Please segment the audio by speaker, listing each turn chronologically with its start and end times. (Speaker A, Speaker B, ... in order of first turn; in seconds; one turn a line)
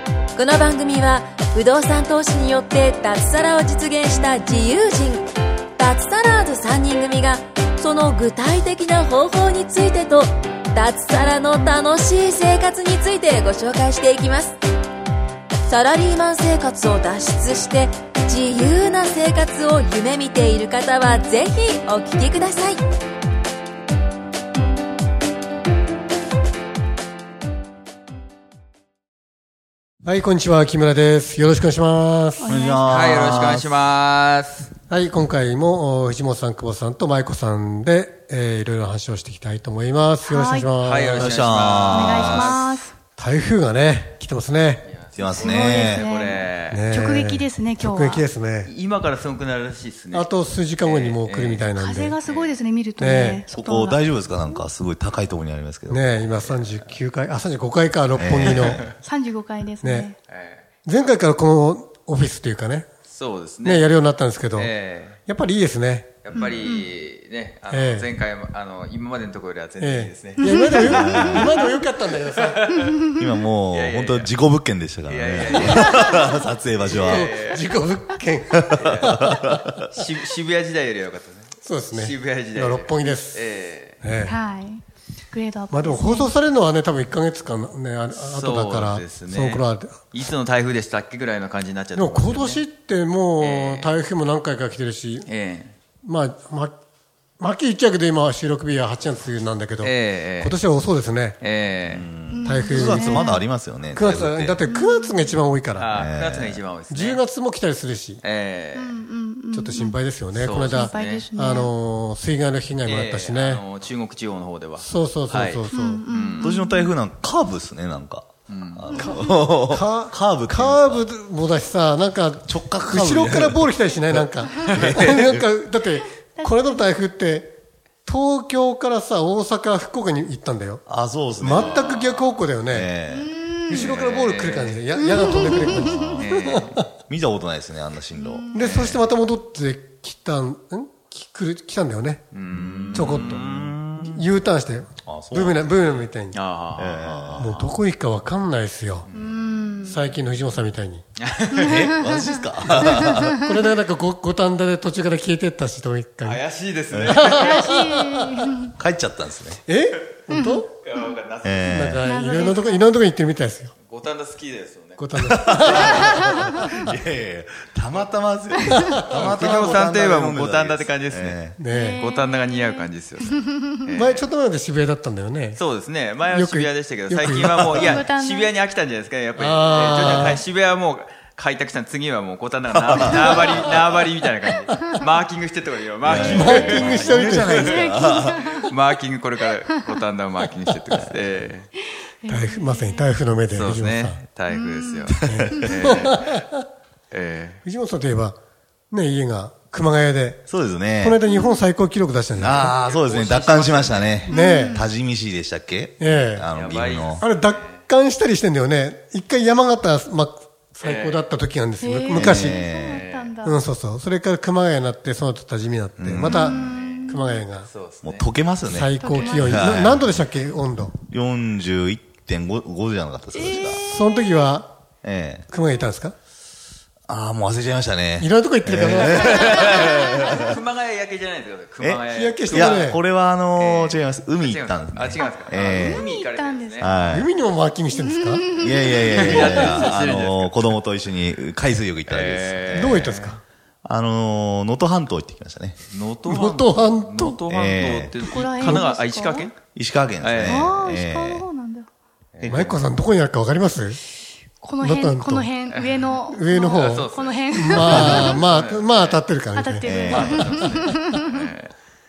Speaker A: 0.4-14.6
Speaker A: 15.7-22.8
Speaker B: 30.0-32.6
Speaker C: 32.4-33.0
Speaker D: 32.5-33.7
Speaker E: 32.9-34.7
Speaker B: 34.9-41.4
Speaker C: 40.2-40.7
Speaker E: 40.8-42.8
Speaker D: 41.1-42.5
Speaker C: 41.9-42.9
Speaker B: 43.2-44.9
Speaker E: 44.9-46.9
Speaker D: 45.2-46.0
Speaker C: 45.4-48.2
Speaker B: 46.7-48.7
Speaker E: 48.6-51.7
Speaker B: 50.1-52.2
Speaker C: 51.8-54.0
Speaker E: 52.2-52.6
Speaker B: 53.0-53.5
Speaker D: 53.5-56.1
Speaker B: 55.9-58.9
Speaker E: 56.4-56.9
Speaker D: 58.1-58.8
Speaker E: 58.5-58.9
Speaker C: 59.0-60.2
Speaker B: 59.8-60.1
Speaker E: 60.3-60.7
Speaker B: 60.9-62.9
Speaker E: 63.1-63.9
Speaker B: 63.6-64.7
Speaker E: 64.6-65.2
Speaker B: 65.3-66.5
Speaker E: 66.2-73.0
Speaker C: 66.4-66.9
Speaker B: 67.7-68.1
Speaker B: 69.8-72.7
Speaker C: 70.4-71.6
Speaker D: 71.0-71.5
Speaker C: 72.7-73.2
Speaker D: 73.1-77.3
Speaker E: 73.7-74.3
Speaker E: 75.1-77.7
Speaker C: 75.8-76.1
Speaker B: 76.9-79.6
Speaker D: 78.6-79.8
Speaker E: 78.8-79.2
Speaker E: 79.9-84.0
Speaker B: 81.6-83.4
Speaker B: 84.0-84.4
Speaker C: 84.2-86.3
Speaker B: 85.7-90.1
Speaker E: 88.1-92.6
Speaker B: 92.0-95.3
Speaker E: 93.4-93.9
Speaker E: 95.3-95.8
Speaker B: 96.0-96.8
Speaker B: 97.4-101.4
Speaker E: 99.8-100.6
Speaker E: 101.4-102.1
Speaker D: 101.8-104.6
Speaker C: 102.3-103.5
Speaker B: 102.5-103.3
Speaker B: 103.9-105.9
Speaker C: 104.6-105.4
Speaker E: 105.8-107.2
Speaker D: 105.9-106.6
Speaker B: 106.9-108.2
Speaker E: 108.2-109.0
Speaker C: 108.8-110.0
Speaker B: 109.5-113.6
Speaker E: 110.3-111.3
Speaker C: 110.7-111.7
Speaker E: 112.8-116.6
Speaker B: 114.8-116.0
Speaker C: 115.7-116.9
Speaker D: 116.4-121.1
Speaker E: 118.5-119.2
Speaker B: 119.0-130.8
Speaker D: 122.5-125.4
Speaker E: 124.5-125.3
Speaker C: 126.3-126.8
Speaker D: 130.9-131.8
Speaker B: 131.4-132.9
Speaker E: 131.5-132.3
Speaker D: 132.7-133.3
Speaker C: 133.1-134.0
Speaker B: 133.7-136.6
Speaker E: 133.7-134.8
Speaker C: 135.0-136.1
Speaker E: 135.4-136.8
Speaker D: 135.8-136.2
Speaker D: 137.1-139.0
Speaker C: 138.2-138.7
Speaker B: 138.5-142.3
Speaker E: 138.6-139.0
Speaker E: 142.3-143.7
Speaker D: 142.5-144.2
Speaker B: 142.9-143.5
Speaker B: 144.0-146.4
Speaker D: 145.1-145.9
Speaker E: 146.3-147.8
Speaker D: 146.8-147.5
Speaker B: 147.4-149.1
Speaker E: 149.1-150.1
Speaker C: 149.1-150.0
Speaker B: 149.8-151.0
Speaker E: 151.2-152.0
Speaker D: 151.6-153.5
Speaker C: 151.6-152.2
Speaker B: 152.6-156.4
Speaker E: 156.2-157.6
Speaker D: 156.9-157.2
Speaker B: 157.1-158.5
Speaker C: 157.3-158.7
Speaker D: 158.8-159.6
Speaker B: 159.7-160.7
Speaker C: 160.3-160.7
Speaker E: 160.8-161.9
Speaker D: 161.4-162.0
Speaker B: 161.7-163.7
Speaker C: 162.0-162.9
Speaker E: 163.8-165.9
Speaker B: 165.0-166.5
Speaker D: 165.2-171.6
Speaker C: 165.9-166.5
Speaker B: 168.9-169.6
Speaker E: 169.1-171.4
Speaker B: 171.6-172.0
Speaker C: 171.7-173.8
Speaker E: 172.0-174.3
Speaker B: 173.9-175.6
Speaker E: 175.6-191.7
Speaker B: 176.2-178.0
Speaker C: 177.8-178.5
Speaker B: 179.4-180.4
Speaker C: 180.0-180.4
Speaker D: 182.8-183.3
Speaker D: 186.0-188.4
Speaker C: 186.1-188.7
Speaker B: 186.2-188.1
Speaker C: 192.2-193.1
Speaker B: 192.3-194.2
Speaker E: 193.5-196.4
Speaker C: 194.5-195.7
Speaker B: 195.2-196.6
Speaker D: 195.3-195.7
Speaker E: 197.1-197.6
Speaker B: 197.6-198.4
Speaker B: 198.9-202.7
Speaker D: 200.5-201.2
Speaker C: 201.3-201.6
Speaker D: 202.4-207.2
Speaker E: 202.5-204.3
Speaker B: 204.3-204.8
Speaker C: 204.3-204.9
Speaker B: 206.0-206.5
Speaker E: 206.5-207.8
Speaker B: 207.2-212.6
Speaker E: 210.8-211.3
Speaker C: 211.8-213.6
Speaker D: 212.1-213.1
Speaker E: 212.8-213.3
Speaker B: 213.4-217.7
Speaker D: 216.0-216.6
Speaker C: 216.2-217.4
Speaker E: 216.3-218.3
Speaker D: 218.0-220.3
Speaker B: 218.7-220.9
Speaker C: 219.0-219.8
Speaker D: 221.1-223.8
Speaker C: 223.3-224.5
Speaker B: 223.8-224.7
Speaker D: 225.0-225.5
Speaker B: 225.5-226.1
Speaker D: 227.1-230.6
Speaker B: 228.2-229.7
Speaker E: 229.1-232.9
Speaker C: 229.4-230.3
Speaker D: 231.8-236.1
Speaker B: 232.1-233.0
Speaker E: 233.5-236.9
Speaker C: 235.2-237.2
Speaker D: 236.8-237.3
Speaker B: 237.1-238.5
Speaker C: 237.9-239.9
Speaker D: 238.6-243.1
Speaker E: 238.9-240.8
Speaker B: 239.4-239.7
Speaker E: 242.1-243.4
Speaker B: 242.7-243.4
Speaker D: 243.8-245.8
Speaker E: 245.8-249.6
Speaker B: 246.2-247.4
Speaker D: 247.5-248.2
Speaker C: 248.2-249.5
Speaker D: 249.7-251.4
Speaker E: 250.2-250.7
Speaker C: 250.4-251.9
Speaker E: 252.3-252.8
Speaker B: 252.4-254.0
Speaker C: 254.6-258.4
Speaker B: 254.8-255.5
Speaker E: 255.7-256.2
Speaker B: 256.2-260.5
Speaker E: 256.7-259.2
Speaker D: 257.9-258.3
Speaker C: 259.5-261.4
Speaker D: 259.8-260.6
Speaker E: 259.9-261.7